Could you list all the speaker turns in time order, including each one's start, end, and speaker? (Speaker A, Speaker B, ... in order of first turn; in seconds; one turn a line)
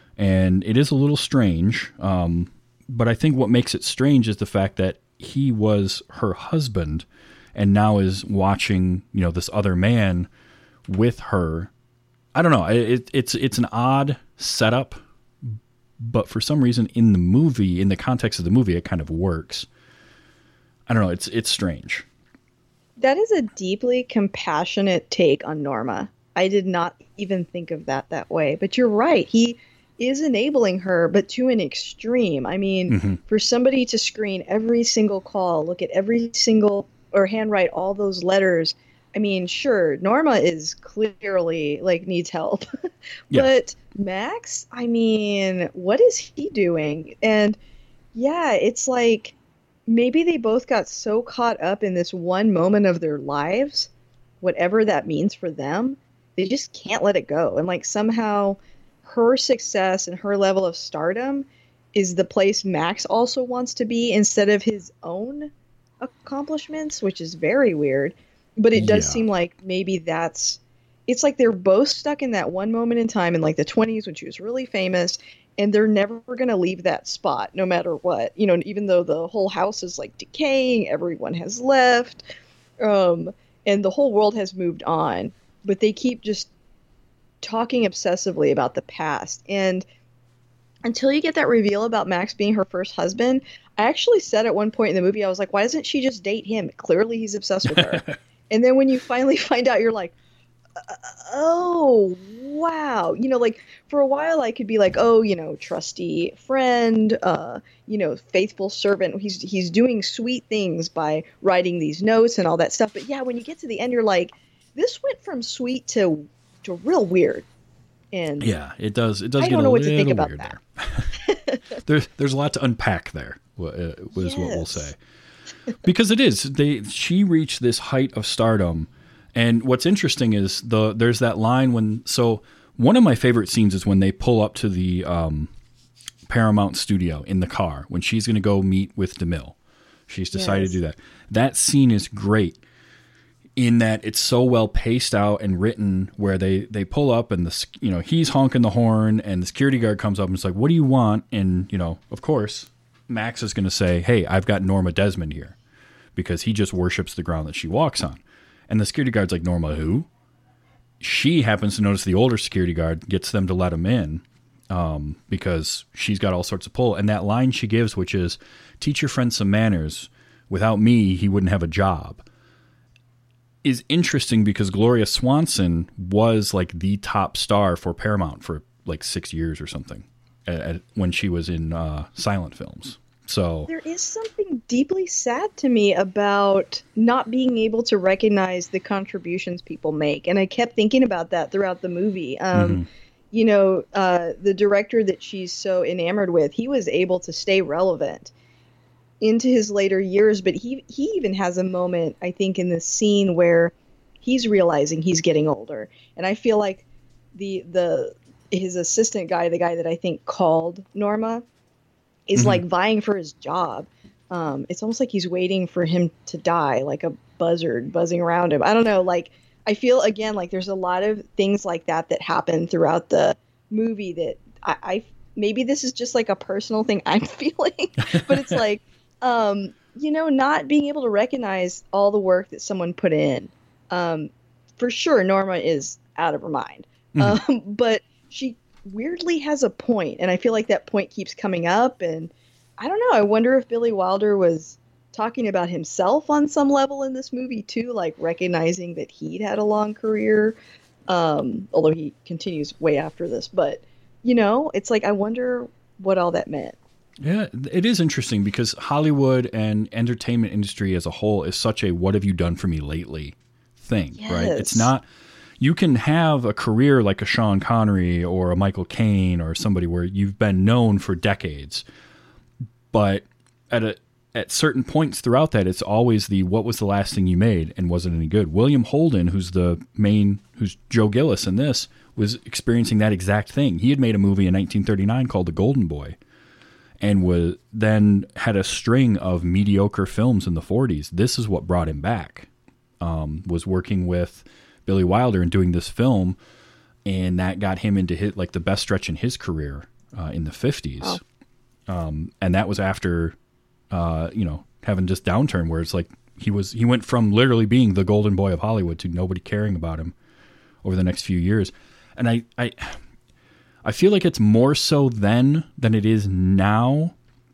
Speaker A: 0.2-10.3
Speaker A: 10.9-11.7
Speaker A: 12.3-19.7
Speaker A: 20.9-22.1
Speaker B: 23.0-42.6
Speaker A: 32.9-33.2
Speaker B: 43.3-47.6
Speaker B: 48.1-49.4
Speaker B: 49.9-53.9
Speaker B: 54.4-82.2
Speaker A: 68.7-69.2
Speaker B: 82.8-86.5
Speaker B: 87.4-89.8
Speaker B: 90.8-100.1
Speaker A: 97.7-98.2
Speaker B: 100.8-117.5
Speaker B: 118.1-118.5
Speaker A: 118.4-121.1
Speaker B: 119.4-120.6
Speaker B: 121.2-121.8
Speaker A: 121.8-125.0
Speaker B: 124.1-124.9
Speaker A: 125.8-135.5
Speaker A: 136.3-139.6
Speaker A: 140.1-142.6
Speaker B: 140.3-140.8
Speaker A: 143.6-155.6
Speaker A: 156.2-160.1
Speaker A: 161.0-172.2
Speaker A: 173.6-183.7
Speaker B: 183.7-198.3
Speaker A: 192.5-192.9
Speaker B: 199.2-206.8
Speaker B: 207.3-211.4
Speaker B: 212.3-250.6
Speaker A: 212.4-212.6
Speaker A: 228.0-228.5
Speaker B: 251.1-256.8
Speaker A: 257.2-265.0
Speaker B: 264.2-264.9
Speaker A: 265.6-271.9
Speaker A: 272.9-286.2
Speaker A: 287.0-292.5
Speaker A: 293.0-296.4
Speaker A: 297.0-301.2
Speaker A: 301.9-303.4
Speaker A: 303.9-310.1
Speaker A: 310.8-313.0
Speaker A: 313.8-317.1